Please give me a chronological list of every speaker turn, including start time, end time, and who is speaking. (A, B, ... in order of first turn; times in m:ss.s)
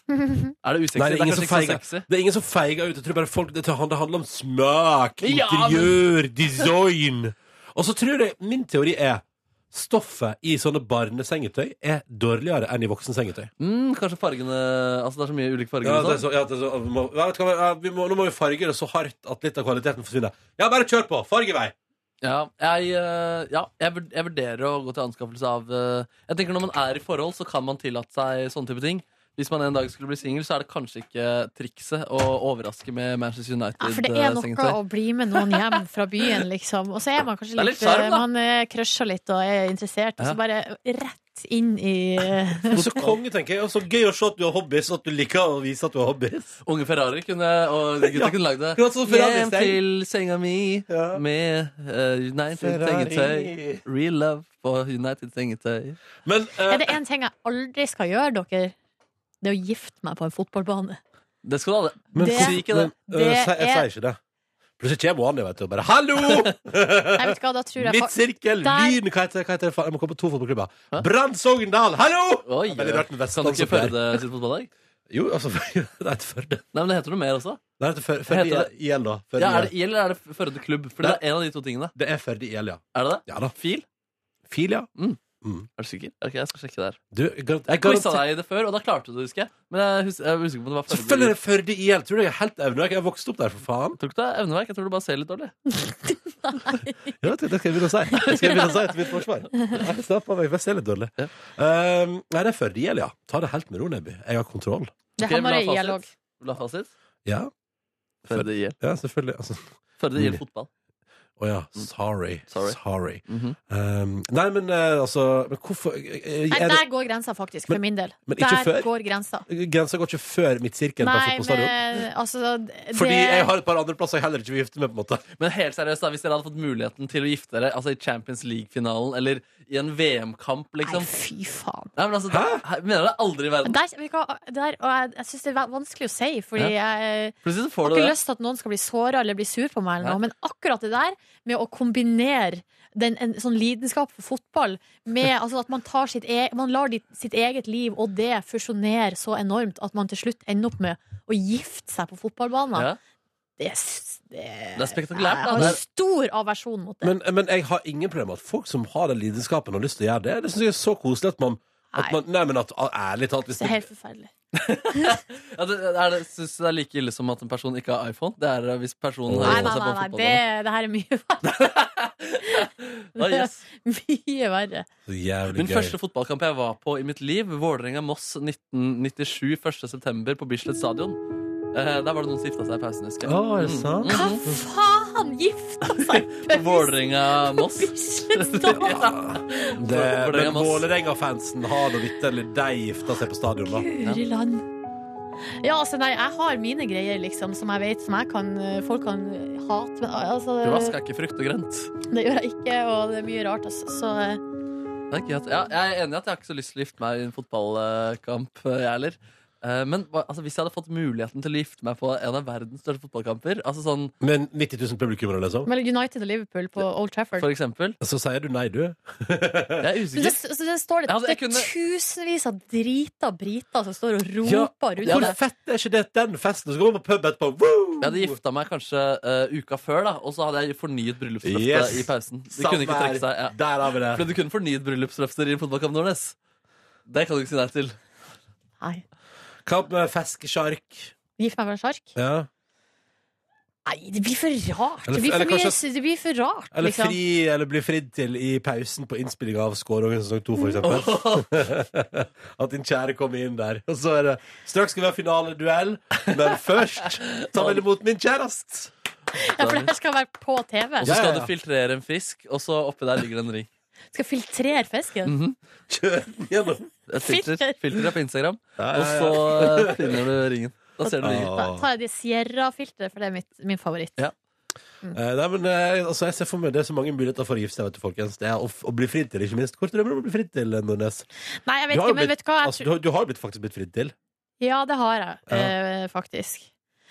0:00.1-0:00.5 A
0:00.6-0:02.0 B
0:00.9-0:13.5 C
0:05.2-0:06.0 B
0:13.6-0:16.2 B
0:15.8-0:21.7 C
0:22.2-0:34.8 B
0:33.8-0:42.8 A
0:35.3-0:36.4 B
0:37.6-0:38.2 B
0:42.7-0:46.6 C
0:46.6-0:56.0 B
0:48.0-0:49.8 C
0:50.9-0:51.2 C
0:52.5-0:53.8 C
0:56.2-0:56.9 C
0:56.7-0:58.7 A
0:59.4-1:01.0 A
1:01.4-1:02.9 B
1:02.1-1:04.2 C
1:02.2-1:03.9 A
1:04.8-1:14.2 C
1:06.2-1:06.5 B
1:07.2-1:09.0 A
1:12.4-1:14.7 B
1:15.1-1:16.6 C
1:16.7-1:17.6 B
1:17.8-1:19.7 C
1:18.3-1:18.7 B
1:19.4-1:21.9 B
1:21.9-1:23.5 C
1:22.9-1:23.8 B
1:24.5-1:24.9 C
1:25.8-1:27.0 B
1:27.1-1:28.2 C
1:27.8-1:31.3 B
1:30.9-1:34.0 C
1:34.0-1:35.5 B
1:35.8-1:37.3 A
1:37.2-1:44.9 C
1:38.1-1:38.7 A
1:45.2-1:46.1 A
1:45.2-1:46.9 B
1:48.3-1:48.8 B
1:48.3-1:50.4 C
1:50.0-1:50.7 B
1:51.4-1:56.8 C
1:52.5-1:53.6 B
1:56.5-1:59.4 A
1:57.7-1:58.9 C
1:59.5-2:01.8 C
2:01.0-2:03.5 A
2:02.9-2:05.2 C
2:05.4-2:11.1 B
2:10.8-2:11.9 A
2:12.0-2:13.8 B
2:12.3-2:12.6 C
2:13.6-2:32.9 A
2:17.4-2:18.1 B
2:33.6-2:37.1 A
2:34.8-2:35.8 B
2:37.0-2:43.9 C
2:43.5-2:44.3 A
2:44.5-2:50.4 B
2:49.3-2:49.7 C
2:49.4-2:51.7 A
2:51.4-2:53.6 B
2:53.2-2:54.9 A
2:55.0-2:56.0 C
2:55.5-3:01.2 B
3:01.7-3:04.4 B
3:03.2-3:04.6 C
3:04.1-3:09.1 A
3:05.9-3:10.8 B
3:08.9-3:13.9 C
3:13.7-3:14.6 A
3:15.6-3:20.9 A
3:20.6-3:21.9 B
3:22.1-3:24.4 A
3:25.1-3:34.1 B
3:34.2-3:35.7 C
3:35.6-3:37.4 A
3:37.4-3:38.0 B
3:38.0-3:39.9 C
3:39.8-3:40.4 B
3:40.1-3:45.4 A
3:41.1-3:41.7 B
3:44.4-3:48.4 C
3:45.0-3:45.3 B
3:48.0-3:53.5 B
3:51.4-3:54.2 C
3:54.1-3:56.3 B
3:57.1-3:58.0 B
3:59.6-4:01.1 C
4:01.4-4:02.1 A
4:02.2-4:02.5 C
4:03.8-4:07.2 A
4:05.1-4:05.8 C
4:06.7-4:18.9 C
4:10.8-4:11.5 B
4:17.2-4:17.8 B
4:19.4-4:21.1 A
4:19.6-4:19.9 B
4:21.0-4:23.7 B
4:21.0-4:21.5 C
4:24.1-4:25.3 A
4:25.2-4:25.6 B
4:25.9-4:26.9 C
4:27.1-4:31.5 B
4:27.2-4:27.7 A
4:28.8-4:30.2 C
4:31.0-4:34.2 A
4:31.2-4:31.8 C
4:35.1-4:41.2 C
4:41.6-4:42.9 A
4:41.9-4:44.1 C
4:44.6-4:46.7 A